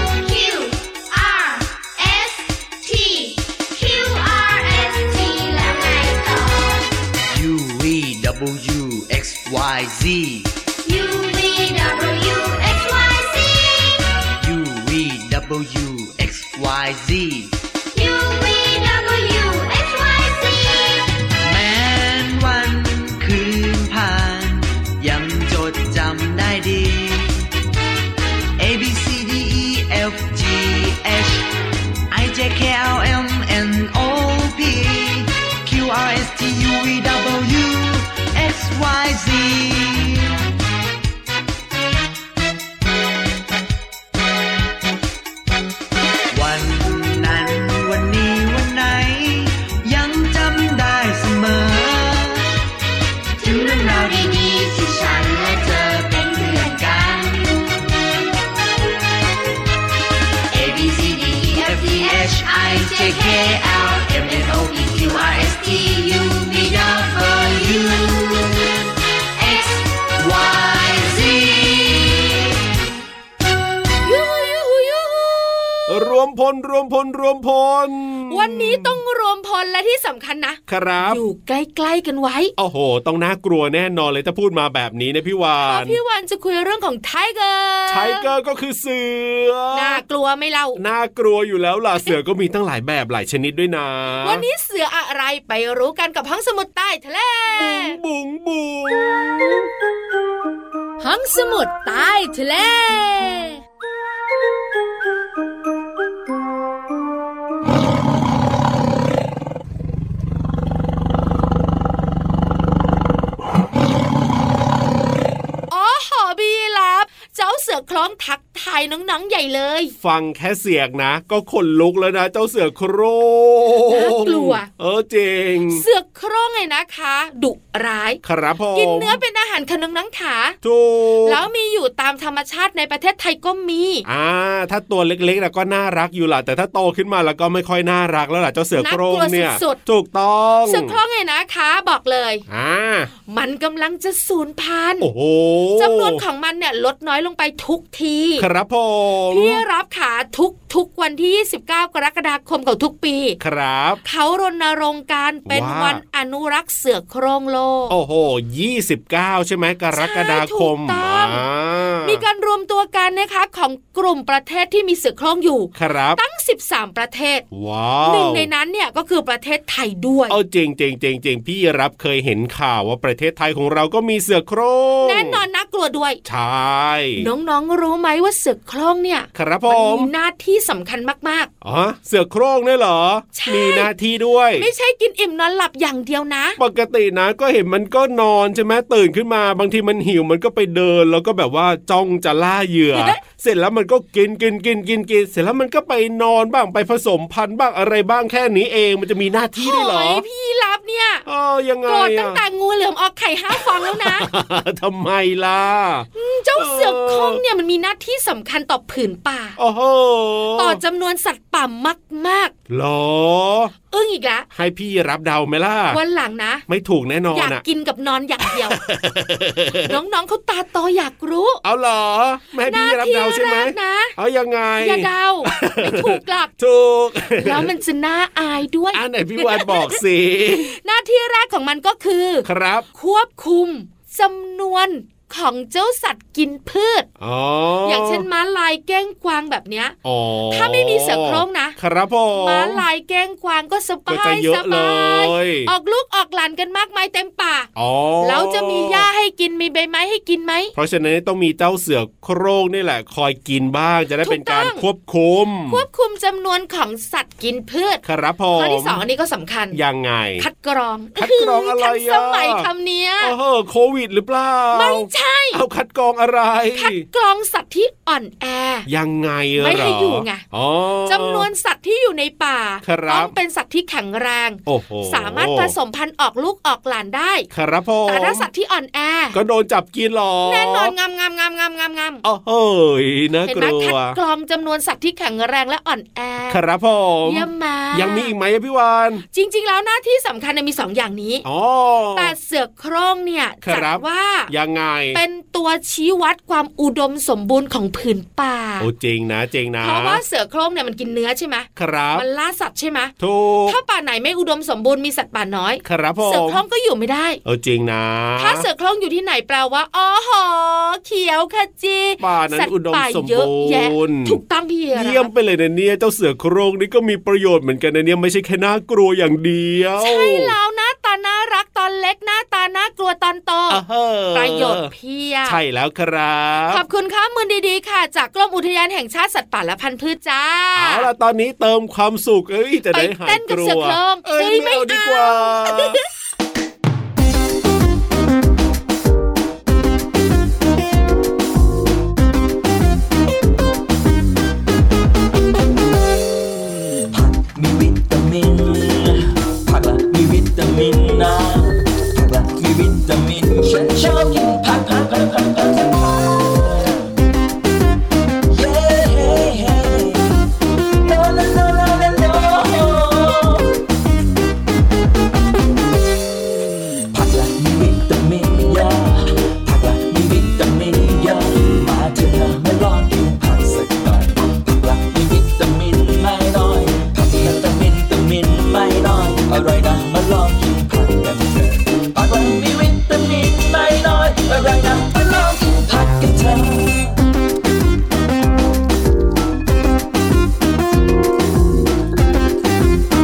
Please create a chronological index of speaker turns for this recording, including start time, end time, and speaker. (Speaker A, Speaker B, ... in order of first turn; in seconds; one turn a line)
Speaker A: 0.2-6.9
Speaker B: 7.3-10.6
Speaker A: 10.8-14.0
Speaker B: 14.4-17.6
Speaker A: 17.9-21.1
Speaker B: 21.4-27.5
Speaker B: 28.6-31.5
Speaker B: 32.1-40.4
Speaker B: 46.3-52.5
Speaker A: 53.4-57.0
Speaker B: 53.4-54.7
Speaker B: 55.4-57.5
Speaker B: 60.5-68.9
Speaker A: 61.1-65.5
Speaker B: 69.4-72.6
Speaker C: 74.0-75.9
Speaker D: 75.9-79.0
Speaker C: 78.3-82.5
Speaker D: 80.7-81.2
Speaker D: 82.6-86.0
Speaker C: 85.6-88.3
Speaker D: 87.9-90.0
Speaker C: 89.7-90.8
Speaker D: 90.8-94.5
Speaker C: 94.2-98.0
Speaker D: 97.6-99.7
Speaker C: 101.0-103.6
Speaker C: 115.7-119.9
Speaker D: 120.0-125.8
Speaker C: 123.9-124.7
Speaker C: 125.7-128.2
Speaker D: 128.2-129.2
Speaker C: 128.8-130.6
Speaker D: 130.6-131.4
Speaker C: 131.3-134.1
Speaker D: 134.1-141.0
Speaker C: 138.8-139.8
Speaker C: 140.7-142.4
Speaker D: 142.5-143.1
Speaker C: 143.3-145.1
Speaker D: 145.0-146.2
Speaker C: 145.8-148.5
Speaker D: 148.4-149.6
Speaker C: 149.3-153.4
Speaker D: 153.4-154.0
Speaker C: 154.0-157.9
Speaker D: 155.5-156.0
Speaker D: 157.9-162.2
Speaker C: 159.9-161.4
Speaker C: 162.0-167.4
Speaker D: 165.8-166.2
Speaker D: 167.5-168.5
Speaker C: 168.0-170.4
Speaker D: 170.3-175.4
Speaker C: 175.0-176.2
Speaker D: 176.2-177.3
Speaker C: 177.2-181.5
Speaker D: 179.3-180.1
Speaker D: 181.6-184.7
Speaker C: 183.3-183.9
Speaker C: 184.6-186.6
Speaker D: 186.6-200.2
Speaker C: 192.9-193.2
Speaker C: 199.6-201.2
Speaker D: 201.3-202.4
Speaker C: 201.9-204.3
Speaker D: 203.5-207.4
Speaker C: 206.2-209.6
Speaker D: 209.6-210.8
Speaker C: 210.6-212.5
Speaker D: 212.7-213.7
Speaker C: 213.9-214.5
Speaker D: 214.5-216.0
Speaker C: 215.9-216.7
Speaker D: 216.7-217.6
Speaker C: 217.3-218.8
Speaker D: 218.5-219.9
Speaker C: 219.8-221.6
Speaker D: 221.6-227.7
Speaker C: 222.7-224.2
Speaker C: 224.8-226.5
Speaker C: 227.4-230.0
Speaker D: 228.9-230.7
Speaker C: 230.5-237.1
Speaker D: 232.4-232.9
Speaker D: 237.2-238.2
Speaker C: 237.8-240.0
Speaker D: 240.1-242.8
Speaker C: 240.5-241.8
Speaker C: 242.3-247.7
Speaker D: 244.1-245.7
Speaker D: 247.8-249.1
Speaker C: 248.2-250.7
Speaker D: 250.8-255.8
Speaker C: 254.2-254.8
Speaker C: 255.7-258.0
Speaker D: 258.0-259.0
Speaker C: 258.6-259.8
Speaker D: 259.7-260.5
Speaker C: 260.4-263.3
Speaker D: 261.2-262.7
Speaker D: 263.2-267.0
Speaker C: 264.7-265.6
Speaker C: 266.8-268.9
Speaker D: 268.9-271.5
Speaker C: 269.6-270.5
Speaker C: 271.1-277.5
Speaker D: 272.8-273.3
Speaker D: 274.7-275.7
Speaker D: 277.5-278.5
Speaker C: 278.1-279.4
Speaker D: 279.3-280.9
Speaker C: 280.5-282.2
Speaker D: 282.2-284.2
Speaker C: 283.5-286.6
Speaker D: 286.5-289.2
Speaker C: 287.3-288.3
Speaker C: 289.3-291.4
Speaker D: 291.4-292.3
Speaker C: 292.1-294.5
Speaker D: 293.6-295.2
Speaker C: 295.1-298.9
Speaker D: 298.8-300.2
Speaker C: 299.8-303.1
Speaker D: 301.8-302.2
Speaker D: 303.2-303.8
Speaker C: 303.7-307.4
Speaker D: 305.9-306.6
Speaker D: 307.4-308.7
Speaker C: 308.4-315.3
Speaker D: 312.2-314.4
Speaker D: 314.9-320.5
Speaker C: 320.0-323.8
Speaker D: 323.7-324.9
Speaker C: 324.3-325.6
Speaker D: 325.4-326.8
Speaker C: 326.7-331.1
Speaker D: 330.8-336.0
Speaker C: 332.9-336.0
Speaker E: 347.1-357.0
Speaker E: 358.5-360.4
Speaker E: 361.0-363.7
Speaker E: 367.1-387.2